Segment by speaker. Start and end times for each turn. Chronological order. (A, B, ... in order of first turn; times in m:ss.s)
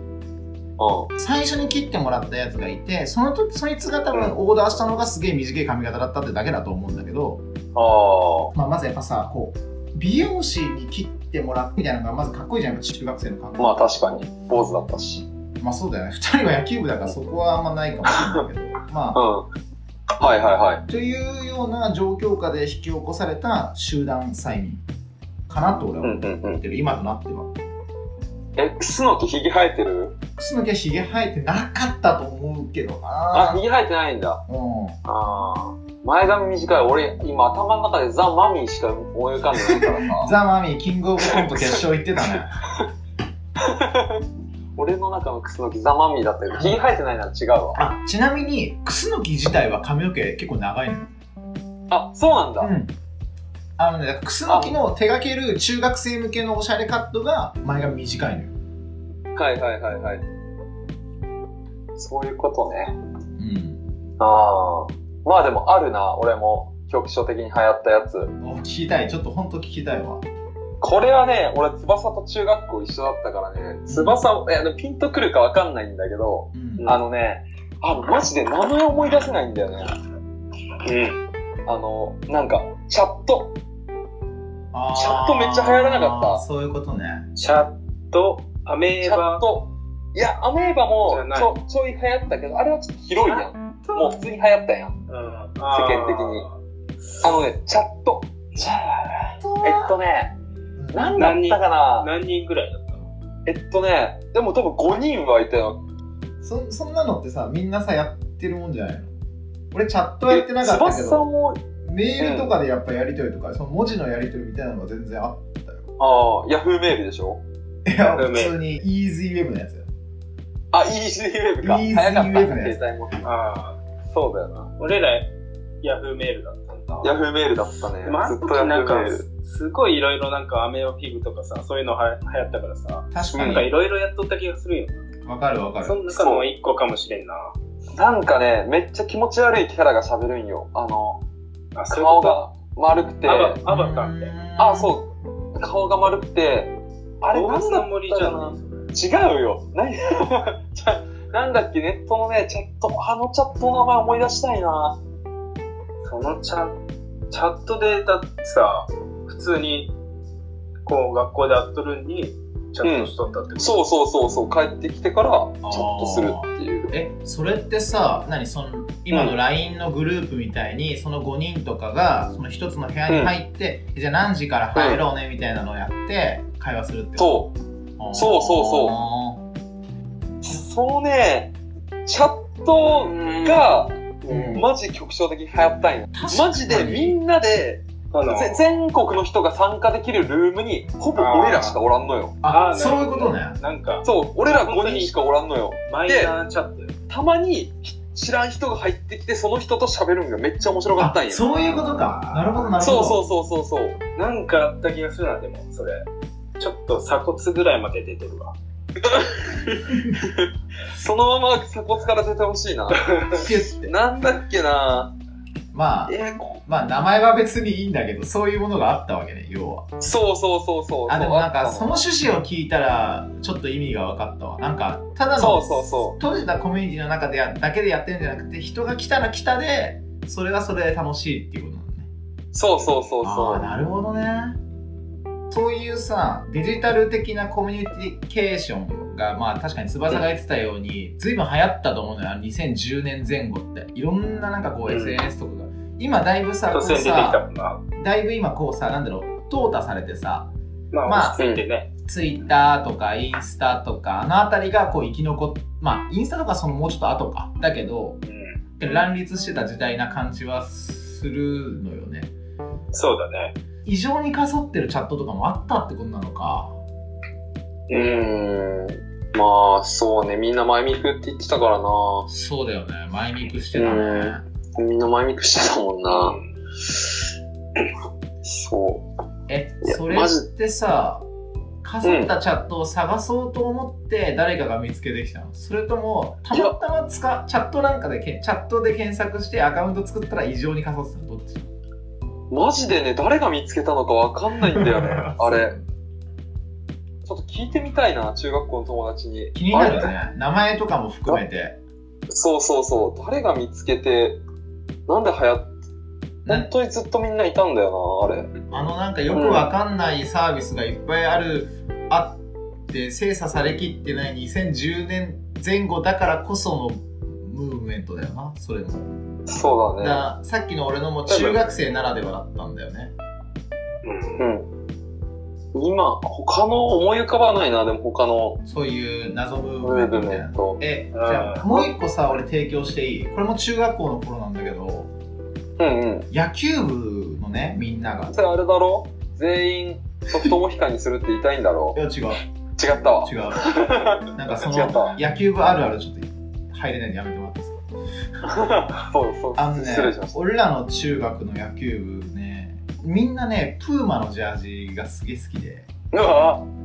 0:00.8-0:01.1 A
0:01.2-0:07.4 B
0:07.8-0:08.5 A
0:08.5-0:13.9 B
0:13.6-0:15.3 A
0:15.6-0:19.2 B
0:18.1-0:18.4 A
0:19.1-0:19.5 A
0:20.2-0:20.8 A
0:20.9-0:24.8 B
0:25.5-0:27.5 B
0:26.0-0:26.6 A
0:28.6-0:30.2 A
0:30.4-0:33.6 B
0:33.3-0:34.4 A
0:34.5-0:35.0 B
0:35.0-0:40.3 A
0:39.5-0:42.6 B
0:41.2-0:42.4 A
0:43.6-0:44.2 A
0:44.8-0:47.8 A
0:47.8-0:51.1 B
0:51.9-0:52.7 A
0:52.6-0:52.9 B
0:53.8-0:58.5 B
0:54.5-0:54.8 A
0:59.4-1:00.2 A
1:02.0-1:03.0 A
1:03.4-1:03.8 B
1:04.2-1:08.3 A
1:08.4-1:10.2 B
1:10.8-1:19.9 A
1:13.9-1:14.2 B
1:16.5-1:16.9 B
1:20.8-1:21.2 C
1:21.7-1:23.5 A
1:24.7-1:27.3 B
1:24.9-1:26.4 A
1:27.4-1:29.4 C
1:29.0-1:35.0 A
1:31.1-1:31.5 C
1:35.1-1:36.5 C
1:35.7-1:36.4 A
1:37.1-1:37.4 C
1:37.2-1:38.8 A
1:38.6-1:39.1 C
1:39.4-1:39.9 B
1:39.6-1:40.3 A
1:40.8-1:41.4 B
1:40.9-1:42.1 A
1:41.2-1:43.1 C
1:43.5-1:45.8 A
1:46.4-1:49.1 B
1:49.7-1:51.2 B
1:50.3-1:51.6 A
1:51.8-1:55.8 B
1:52.2-1:52.6 A
1:56.0-1:57.4 A
1:57.8-1:59.9 B
1:58.2-1:58.6 C
2:00.7-2:03.2 A
2:01.6-2:02.8 B
2:03.2-2:03.8 C
2:04.1-2:04.7 A
2:04.8-2:05.3 C
2:05.8-2:07.1 C
2:07.0-2:09.2 A
2:08.0-2:15.0 C
2:13.1-2:13.7 B
2:13.3-2:13.7 A
2:15.3-2:16.0 B
2:15.8-2:17.5 C
2:16.1-2:16.4 A
2:18.0-2:21.2 A
2:21.8-2:22.4 C
2:21.9-2:23.6 A
2:23.2-2:24.3 C
2:23.7-2:24.9 B
2:24.6-2:35.0 A
2:27.3-2:28.9 C
2:36.0-2:36.8 C
2:37.3-2:39.9 C
2:40.9-2:43.8 C
2:42.8-2:46.9 A
2:45.6-2:59.4 B
2:49.1-2:49.4 A
2:53.1-2:53.3 A
2:54.8-2:55.0 A
2:57.2-2:57.5 A
2:58.1-2:59.0 A
3:00.4-3:01.5 A
3:02.1-3:12.4 A
3:03.0-3:03.7 C
3:04.2-3:04.6 C
3:04.3-3:04.7 B
3:06.1-3:07.2 B
3:08.1-3:08.6 C
3:11.2-3:11.8 C
3:12.4-3:13.6 B
3:12.5-3:15.1 C
3:14.0-3:16.3 A
3:15.9-3:16.9 C
3:17.1-3:21.5 A
3:21.0-3:23.2 B
3:22.8-3:24.0 A
3:24.2-3:26.0 C
3:26.6-3:28.6 C
3:29.0-3:35.1 A
3:33.0-3:33.4 C
3:33.4-3:33.9 B
3:35.7-3:39.9 B
3:36.1-3:36.6 A
3:40.0-3:42.0 A
3:41.1-3:52.1 B
3:45.4-3:46.2 A
3:52.5-3:53.7 A
3:52.8-3:53.1 C
3:53.2-3:54.6 B
3:55.5-4:07.4 B
4:04.9-4:05.2 C
4:06.7-4:07.8 C
4:08.0-4:10.5 B
4:10.9-4:11.9 C
4:11.0-4:11.4 B
4:11.4-4:11.6 A
4:12.0-4:18.2 B
4:18.3-4:18.6 C
4:18.8-4:22.3 B
4:22.9-4:23.6 C
4:23.8-4:26.8 B
4:27.9-4:32.3 A
4:27.9-4:28.2 C
4:32.3-4:34.4 B
4:33.7-4:36.4 A
4:36.1-4:36.5 C
4:38.4-4:39.1 A
4:39.5-4:41.2 B
4:39.8-4:40.5 A
4:41.8-4:51.7 B
4:42.0-4:42.3 A
4:52.5-4:55.8 A
4:54.7-4:55.8 B
4:57.3-5:00.1 A
4:59.6-5:01.8 B
5:02.3-5:04.4 A
5:05.1-5:05.7 A
5:06.5-5:08.5 A
5:08.7-5:19.1 B
5:09.3-5:09.7 A
5:19.5-5:20.3 A
5:20.0-5:23.1 B
5:21.3-5:21.6 A
5:24.0-5:24.4 C
5:24.4-5:24.7 A
5:25.7-5:28.6 A
5:28.7-5:35.1 B
5:29.8-5:30.8 A
5:31.1-5:31.7 C
5:35.8-5:36.3 A
5:36.3-5:38.3 B
5:38.3-5:42.0 A
5:42.0-5:42.4 B
5:42.8-5:45.2 A
5:43.2-5:47.8 B
5:48.4-5:50.4 A
5:49.6-5:55.9 B
5:56.1-5:56.7 A